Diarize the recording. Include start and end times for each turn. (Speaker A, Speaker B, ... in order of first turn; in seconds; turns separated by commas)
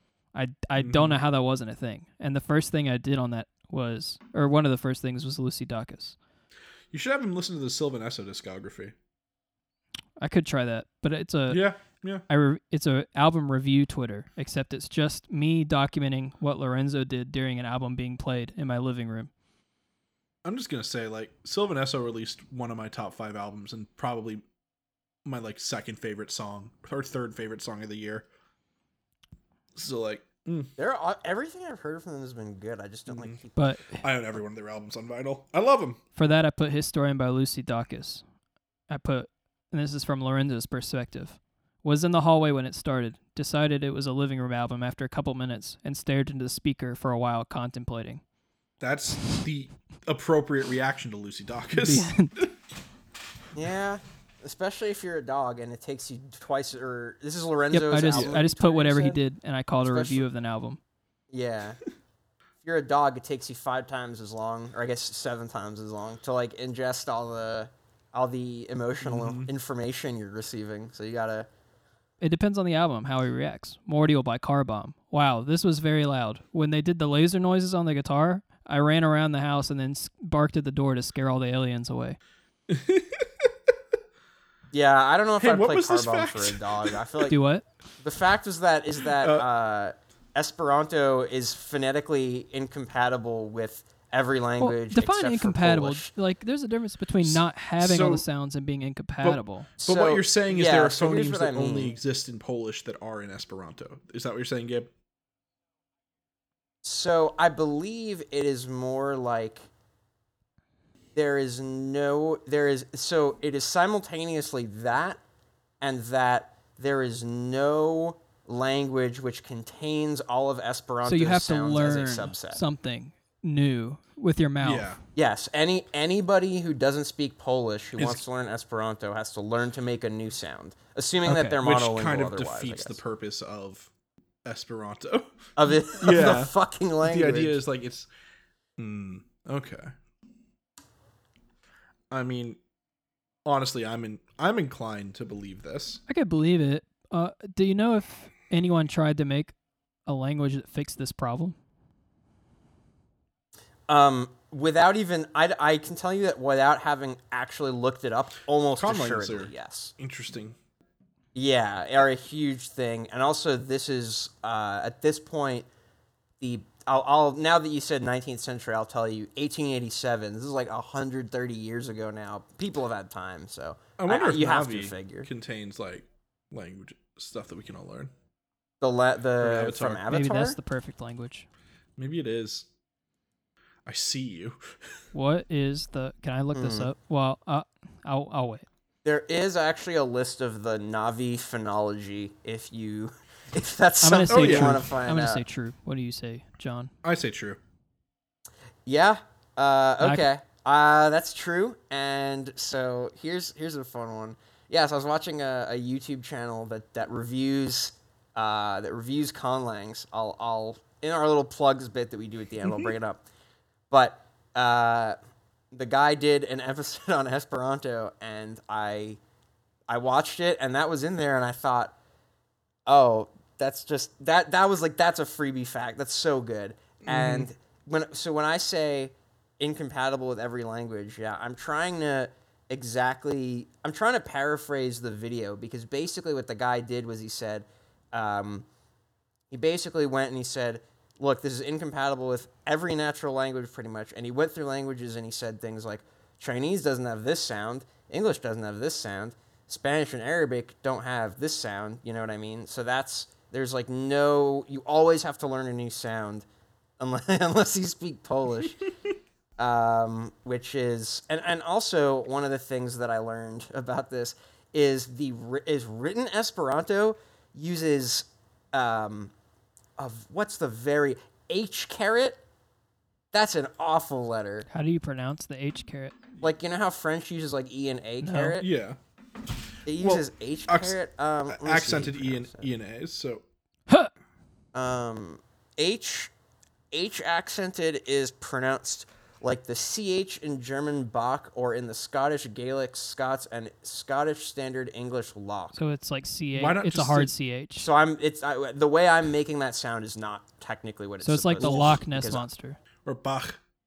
Speaker A: 0.3-6.2, Speaker B: 0.8-1.2, Speaker B: 6.9-8.9, Speaker A: 10.2-11.6, Speaker B: 11.5-12.2, Speaker A: 12.3-19.3, Speaker B: 20.4-24.4, Speaker B: 25.2-28.2, Speaker B: 29.7-30.7, Speaker C: 30.8-33.8, Speaker B: 33.1-33.4, Speaker A: 33.6-34.0, Speaker B: 34.0-36.0, Speaker A: 36.1-38.2, Speaker A: 38.9-48.2, Speaker B: 48.8-52.5, Speaker A: 51.7-52.4, Speaker C: 53.5-59.2, Speaker A: 57.7-60.8, Speaker B: 58.1-58.4, Speaker C: 59.8-60.2, Speaker C: 61.3-61.8, Speaker C: 62.6-71.5, Speaker B: 69.0-69.5, Speaker A: 72.2-82.2, Speaker B: 82.7-83.5, Speaker C: 84.7-87.3, Speaker B: 85.4-87.3, Speaker A: 87.3-87.7, Speaker C: 88.0-96.1, Speaker B: 89.1-89.5, Speaker A: 94.6-99.7, Speaker B: 97.2-98.2, Speaker B: 99.2-104.9, Speaker C: 99.8-101.9, Speaker C: 106.8-109.7, Speaker C: 111.1-115.2, Speaker C: 115.8-122.6, Speaker A: 121.0-125.0, Speaker B: 124.6-125.0, Speaker C: 125.1-133.0, Speaker B: 128.0-128.2, Speaker A: 131.2-131.6, Speaker B: 131.6-133.9, Speaker B: 134.4-135.4, Speaker C: 135.6-137.6, Speaker B: 136.0-138.1, Speaker B: 138.8-139.9, Speaker B: 142.1-142.6, Speaker B: 143.4-146.0, Speaker A: 146.1-149.5, Speaker A: 150.1-151.6, Speaker C: 153.9-159.9, Speaker B: 158.8-160.6, Speaker C: 161.3-165.7, Speaker C: 166.4-175.3, Speaker B: 174.0-178.1, Speaker C: 178.8-180.6, Speaker B: 179.4-180.0, Speaker A: 180.1-181.5, Speaker B: 182.0-182.7, Speaker B: 183.8-185.0, Speaker A: 185.1-188.7, Speaker C: 186.5-186.9, Speaker C: 189.0-195.4, Speaker A: 194.0-196.9, Speaker B: 194.3-194.8, Speaker B: 197.0-197.6, Speaker C: 198.8-213.2, Speaker C: 213.9-215.2, Speaker C: 215.7-219.2, Speaker C: 219.9-221.9, Speaker C: 222.9-238.7, Speaker B: 227.0-227.5, Speaker C: 239.5-256.4, Speaker C: 257.0-258.8, Speaker C: 259.6-269.3, Speaker C: 270.0-272.4, Speaker C: 273.3-274.7, Speaker A: 274.7-276.1, Speaker C: 276.4-278.7, Speaker A: 278.2-278.6, Speaker B: 278.6-279.0, Speaker C: 279.9-282.7, Speaker B: 280.0-283.4, Speaker C: 284.7-286.3, Speaker C: 286.9-295.8, Speaker A: 295.7-297.9, Speaker B: 296.5-297.3, Speaker C: 297.8-302.4, Speaker A: 301.2-302.8, Speaker B: 301.6-302.0, Speaker B: 303.0-303.6